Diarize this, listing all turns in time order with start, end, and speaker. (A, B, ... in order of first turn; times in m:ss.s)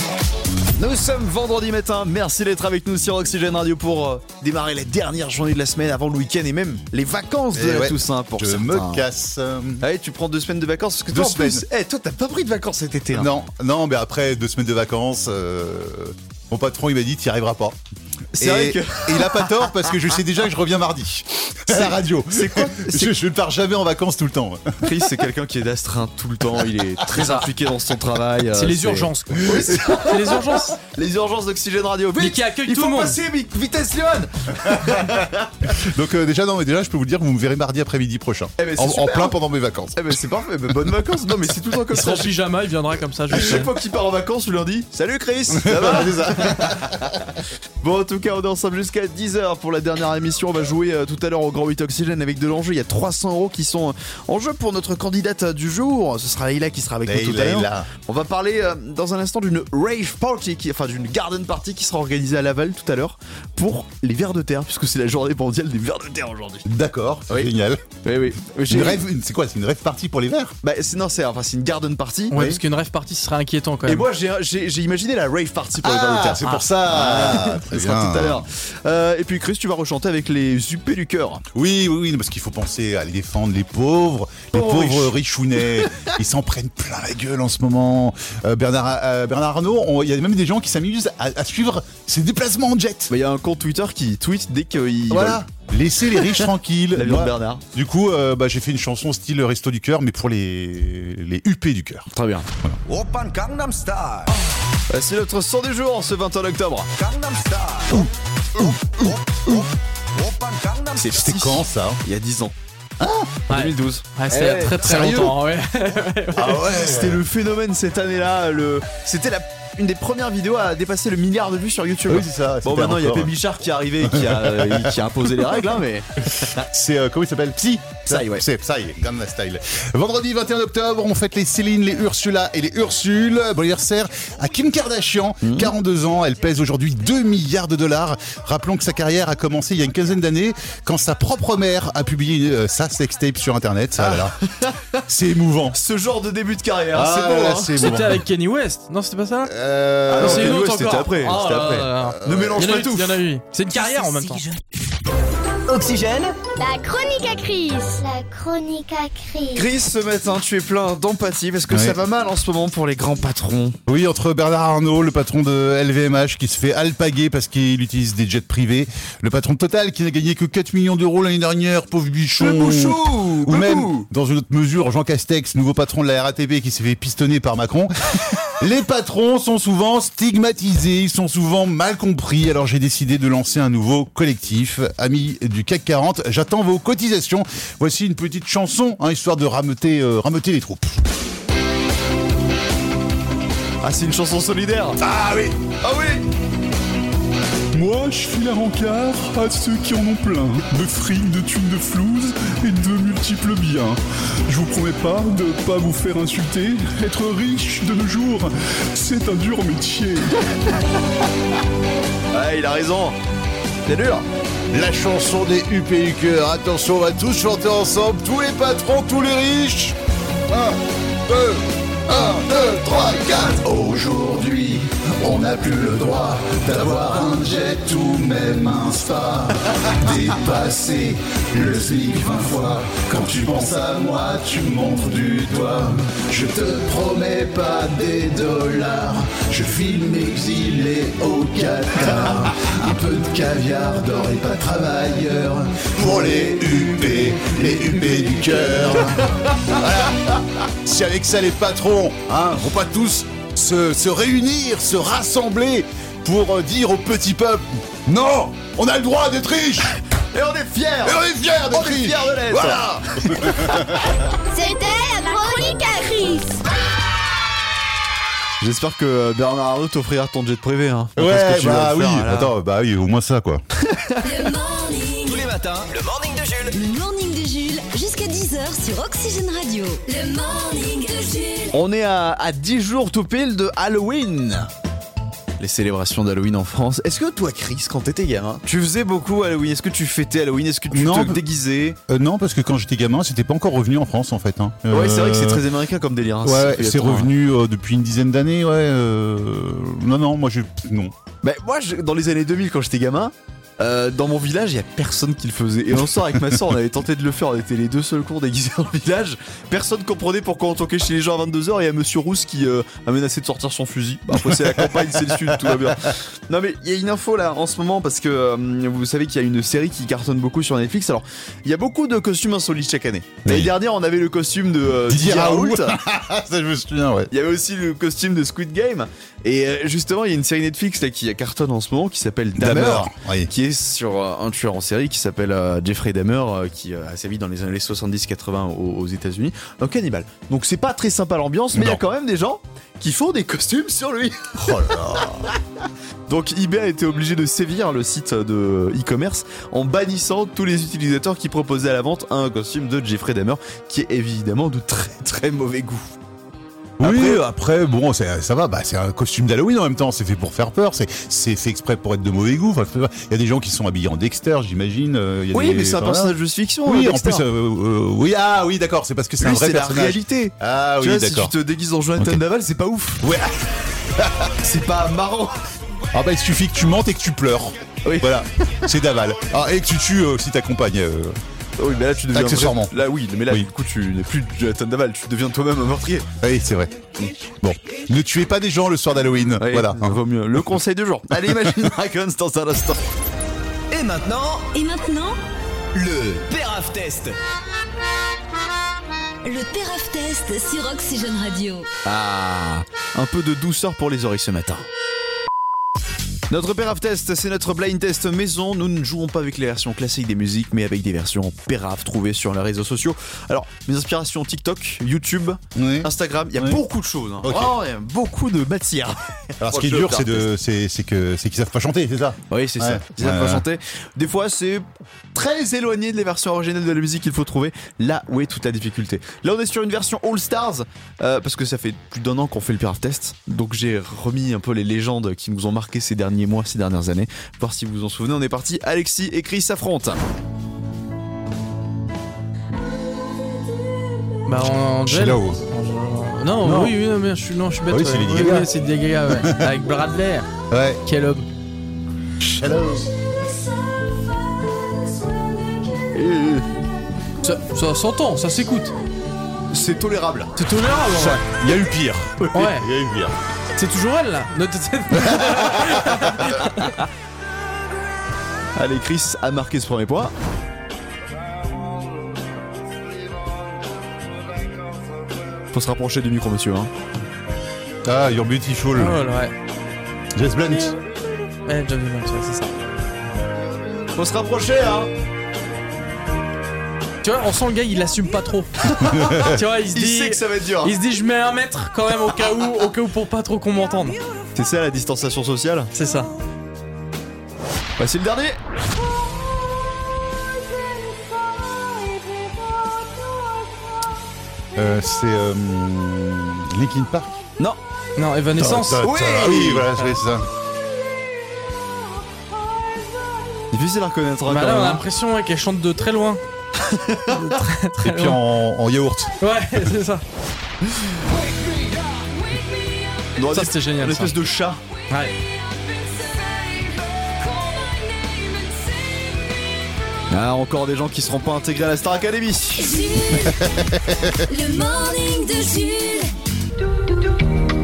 0:00.8-0:09.1 A
0:07.5-0:09.8 B
0:09.8-0:13.3 A
0:11.1-0:11.6 B
0:13.1-0:17.8 B
0:18.4-0:19.9 A
0:18.4-0:25.1 B
0:21.7-0:23.1 A
0:24.8-0:35.5 A
0:27.2-0:27.4 C
0:28.5-0:30.8 C
0:32.2-0:33.2 C
0:35.8-0:40.2 B
0:38.6-0:39.4 A
0:39.9-0:42.3 A
0:41.9-0:43.7 C
0:43.3-1:06.7 A
0:45.5-0:47.1 B
0:57.0-0:57.9 B
1:06.6-1:07.8 B
1:08.0-1:09.0 A
1:08.7-1:10.6 B
1:10.6-1:12.4 A
1:12.3-1:14.1 C
1:12.3-1:12.6 B
1:13.8-1:21.4 A
1:15.8-1:18.4 B
1:21.5-1:33.1 B
1:24.5-1:25.1 A
1:25.8-1:26.1 A
1:33.1-1:35.4 A
1:35.1-1:42.0 B
1:36.2-1:37.6 A
1:42.1-1:42.5 A
1:42.8-1:44.3 D
1:44.9-1:46.9 A
1:47.0-1:51.1 D
1:47.9-1:49.7 B
1:51.0-1:52.5 A
1:51.1-1:52.0 B
1:53.0-1:53.4 B
1:53.5-1:56.7 C
1:53.5-1:54.8 A
1:54.8-1:55.4 B
1:56.3-1:57.2 B
1:56.7-2:06.6 A
2:02.1-2:03.3 B
2:04.0-2:05.5 B
2:06.5-2:24.4 B
2:08.0-2:08.4 A
2:15.4-2:15.7 A
2:24.0-2:25.0 A
2:25.1-2:25.8 B
2:25.7-2:27.9 A
2:26.9-2:28.2 B
2:27.7-2:29.5 C
2:29.4-2:30.6 B
2:30.1-2:34.4 C
2:30.1-2:33.2 A
2:31.4-2:32.7 B
2:35.7-2:36.4 D
2:36.6-2:39.6 E
2:39.6-2:43.8 A
2:41.7-2:42.0 B
2:43.9-2:57.9 B
2:52.4-2:54.1 A
2:58.6-3:11.0 B
3:13.8-3:15.0 A
3:15.0-3:15.6 B
3:15.8-3:16.2 A
3:17.7-3:30.4 B
3:32.3-3:33.2 A
3:33.8-3:34.2 A
3:34.7-3:40.0 B
3:40.5-4:20.0 B
4:20.3-4:23.9 A
4:21.0-4:24.1 B
4:24.5-4:26.6 E
4:28.6-4:32.5 A
4:31.2-4:33.6 B
4:33.9-4:34.2 A
4:34.2-4:35.5 F
4:35.2-4:36.8 D
4:36.7-4:41.7 F
4:41.7-4:44.7 A
4:45.6-4:52.0 A
4:50.9-4:51.4 B
4:52.1-4:55.6 B
4:54.9-4:57.3 A
4:56.4-5:01.1 B
5:01.4-5:26.0 A
5:14.6-5:15.9 B
5:23.4-5:23.7 B
5:25.1-5:27.3 B
5:27.3-5:45.4 A
5:32.6-5:33.5 B
5:41.7-5:42.0 B
5:44.6-5:45.5 B
5:46.3-5:56.2 A
5:57.0-6:11.5 B
5:57.0-5:57.4 A
6:05.5-6:07.5 A
6:09.4-6:13.2 A
6:13.2-6:14.5 B
6:14.6-6:15.6 A
6:16.1-6:21.4 B
6:18.0-6:18.4 A
6:21.8-6:26.3 A
6:22.3-6:22.9 B
6:26.4-6:30.2 B
6:29.6-6:33.0 A
6:31.4-6:31.7 B
6:33.9-6:34.7 D
6:34.7-6:35.4 F
6:35.9-6:37.4 D
6:39.4-6:41.9 F
6:42.0-6:44.8 A
6:46.5-7:00.5 A
6:55.7-6:56.8 B
6:57.4-6:57.8 B
6:59.6-7:03.6 B
7:02.5-7:20.2 A
7:24.4-7:30.5 C
7:25.0-7:25.6 B
7:26.6-7:26.9 B
7:27.9-7:28.7 B
7:29.3-7:29.7 B
7:30.7-7:31.0 B
7:31.0-7:31.4 C
7:32.4-7:33.1 B
7:36.1-7:36.6 A
7:37.4-7:38.9 C
7:39.7-7:40.6 A
7:40.6-7:41.4 C
7:41.1-7:43.3 B
7:42.5-7:42.9 C
7:43.8-7:47.0 C
7:45.2-7:46.2 B
7:48.8-7:50.3 A
7:55.7-7:56.9 A
7:58.0-7:59.2 B
7:58.9-7:59.5 C
8:00.4-8:01.0 B
8:01.6-8:02.7 C
8:04.1-8:05.1 A
8:07.2-8:14.2 C
8:08.9-8:11.0 A
8:14.5-8:15.9 A
8:15.9-8:16.3 C
8:18.0-8:18.6 A
8:24.7-8:27.3 B
8:28.2-8:29.1 C
8:28.6-8:30.4 B
8:29.0-8:29.9 A
8:29.9-8:30.2 C
8:33.7-8:35.0 A
8:34.5-8:36.4 C
8:36.8-8:37.6 A
8:37.3-8:38.4 C
8:38.0-8:39.4 B
8:39.4-8:40.2 C
8:43.4-8:44.8 A
8:43.4-8:44.4 C
8:45.1-8:45.4 C
8:50.3-8:53.0 A
8:52.8-8:53.7 F
8:53.6-8:54.2 B
8:54.4-8:56.3 F